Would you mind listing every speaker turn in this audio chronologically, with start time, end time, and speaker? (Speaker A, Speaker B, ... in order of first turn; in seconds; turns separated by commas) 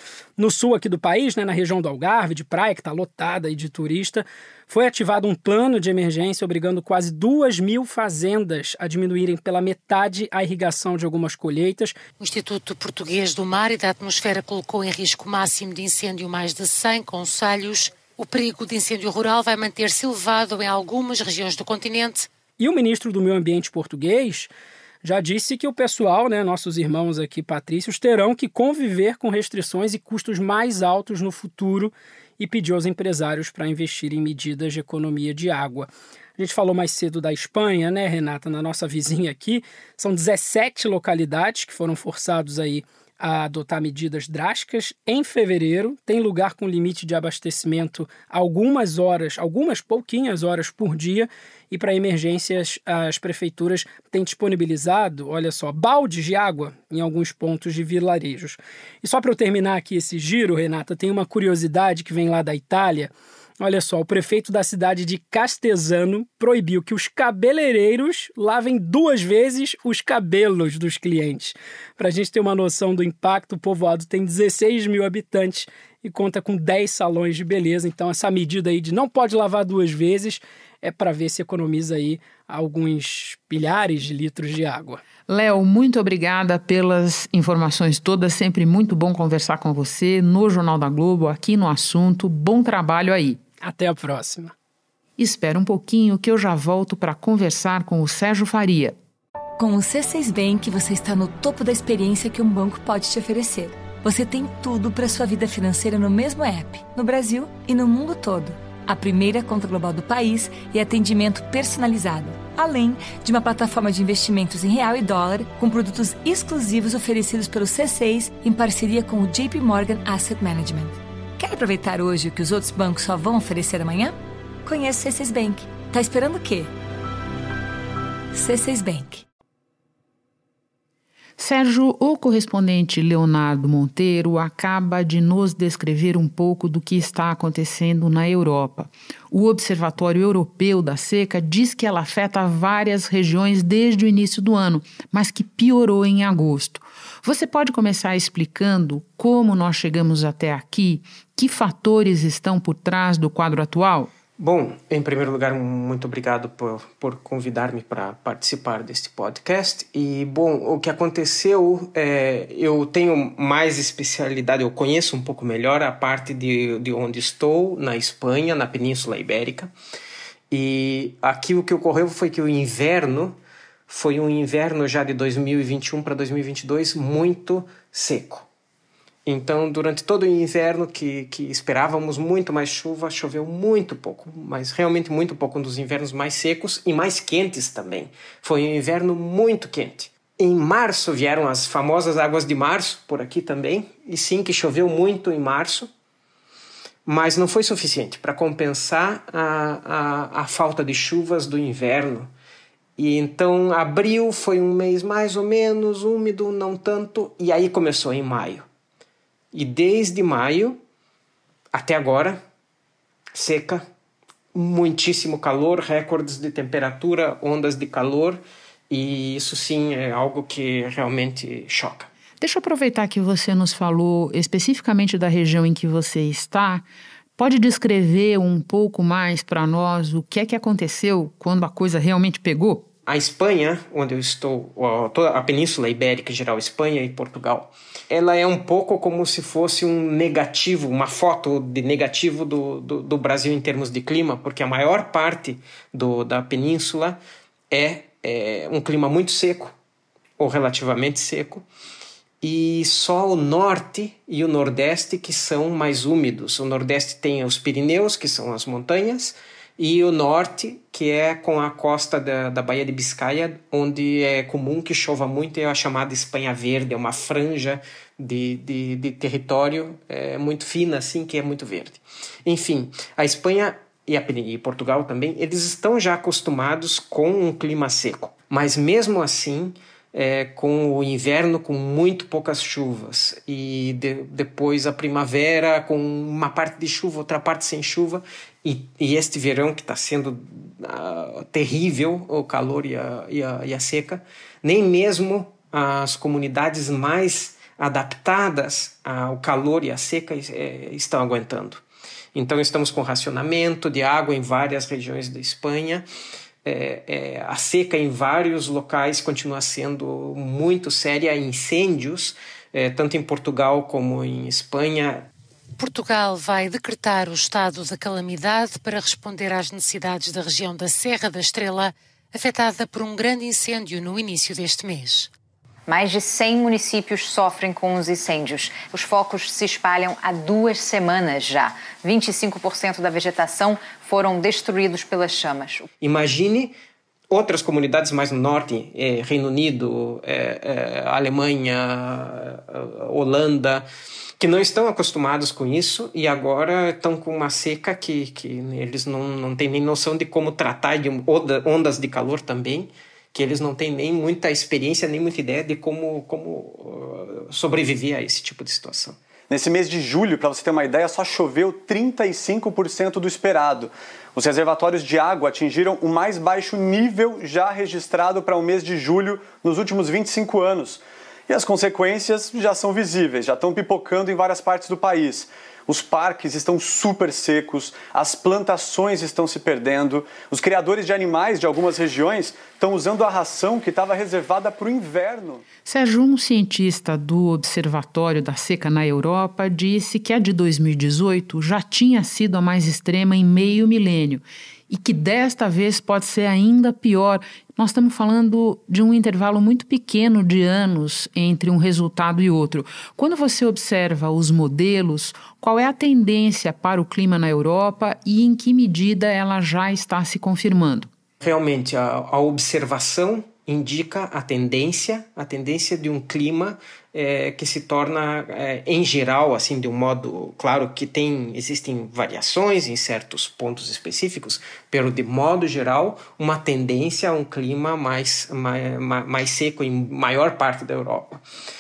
Speaker A: 0.4-11.9, Speaker B: 12.2-22.3, Speaker A: 22.6-24.5, Speaker A: 25.0-85.0, Speaker C: 85.3-93.4, Speaker A: 93.6-94.5, Speaker C: 95.2-98.9, Speaker D: 99.6-126.7, Speaker D: 128.3-129.2, Speaker C: 131.4-154.1, Speaker E: 154.4-169.7, Speaker E: 170.5-173.4, Speaker E: 173.9-178.4, Speaker E: 179.2-195.9, Speaker E: 197.1-202.3, Speaker E: 203.0-208.7, Speaker E: 209.5-210.8, Speaker E: 211.7-212.4, Speaker E: 213.3-213.8, Speaker E: 214.5-222.1, Speaker C: 222.4-226.8, Speaker C: 227.4-232.9, Speaker E: 233.1-247.2, Speaker E: 247.7-249.7, Speaker E: 250.4-251.6, Speaker E: 252.4-301.8, Speaker E: 302.3-306.0, Speaker E: 306.6-315.3, Speaker B: 315.8-325.3, Speaker F: 325.9-335.9, Speaker E: 336.0-336.7, Speaker E: 337.3-343.9, Speaker E: 344.4-359.2, Speaker G: 359.5-385.6, Speaker C: 385.8-411.1, Speaker E: 411.4-431.4